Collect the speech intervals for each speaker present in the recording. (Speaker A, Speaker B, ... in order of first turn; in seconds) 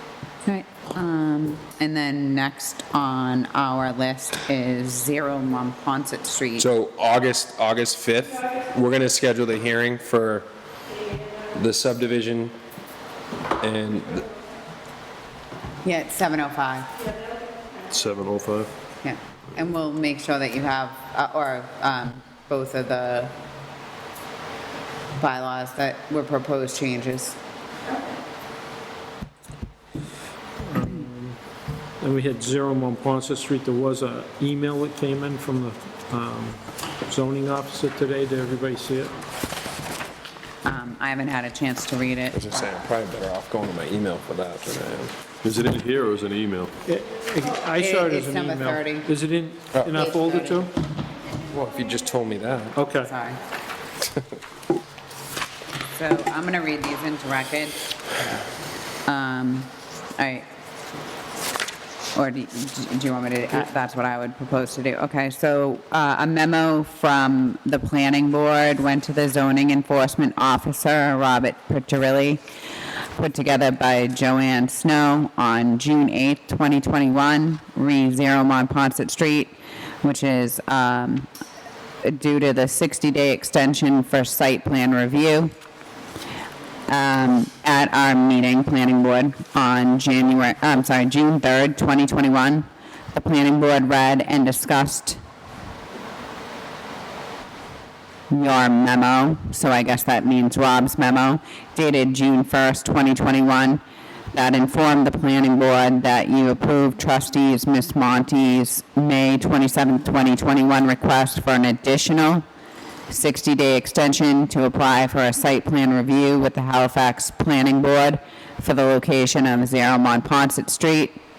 Speaker A: 0.5-6.7, 15.8-16.9, 19.0-23.4, 25.2-27.4, 40.6-42.6, 47.7-49.1, 49.9-50.7, 53.1-53.4, 55.9-58.4, 59.0-60.5, 62.1-72.4, 73.2-81.3, 82.0-85.5, 86.9-95.2, 98.3-103.8, 104.3-112.4, 113.1-121.2
Speaker B: 6.6-10.5, 11.5-12.6, 13.6-14.3, 42.3-45.3, 51.5-52.8
Speaker C: 17.9-18.7, 45.4-46.8
Speaker D: 30.6-31.4, 32.0-39.1, 46.9-50.7, 52.8-53.1